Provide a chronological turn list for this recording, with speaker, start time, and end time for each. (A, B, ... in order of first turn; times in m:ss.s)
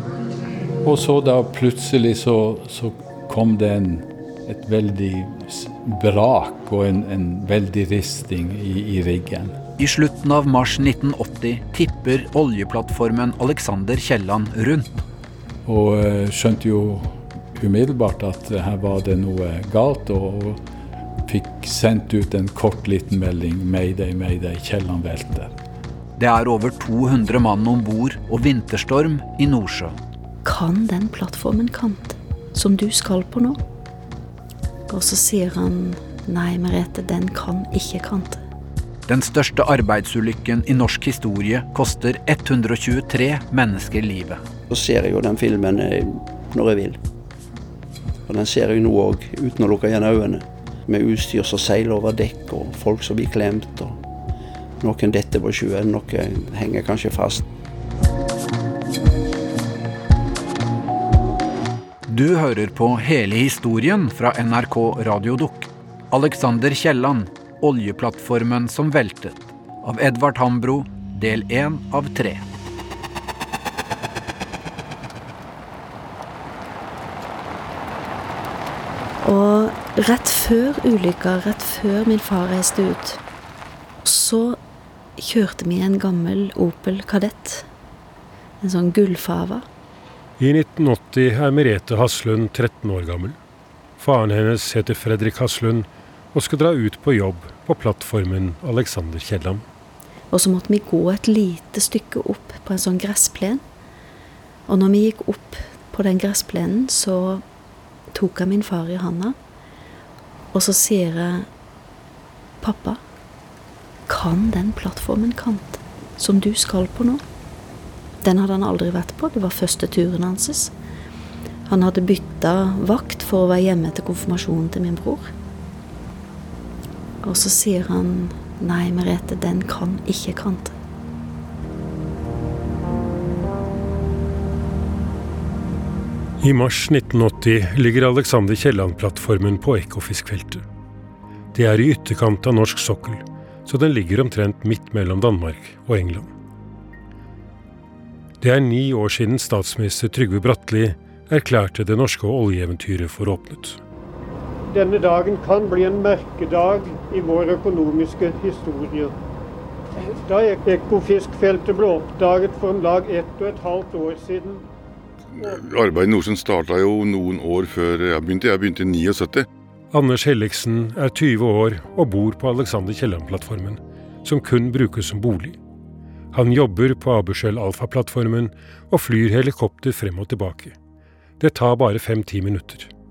0:00.8-0:09.6 A
0:09.8-0:14.9 B
0:15.6-0:20.6 A
0:21.3-0:25.5 A
0:26.2-0:30.0 B
0:30.4-0:33.6 C
0:34.9-0:38.4 C
0:39.1-0:44.4 B
0:44.7-0:47.0 D
0:48.3-0:54.0 D
0:54.8-0:57.4 D
1:02.1-1:12.4 B
1:19.2-1:23.2 C
1:24.0-1:24.6 C
1:25.2-1:27.7 C
1:28.6-1:29.6 C
1:30.4-1:33.4 E
1:34.0-1:39.6 E
1:40.3-1:43.6 C
1:44.7-1:47.4 C
1:48.1-1:49.4 C
1:50.5-1:51.5 C
1:52.6-1:53.0 C
1:54.1-1:57.2 C
1:58.2-2:00.7 C
2:01.7-2:05.3 C
2:07.2-2:10.7 C
2:16.4-2:20.6 E
2:21.5-2:26.3 E
2:28.4-2:33.8 E
2:34.7-2:39.1 F
2:40.0-2:44.6 F
2:45.4-2:49.5 G
2:49.9-2:55.6 E
2:56.3-3:00.8 E
3:01.4-3:02.9 E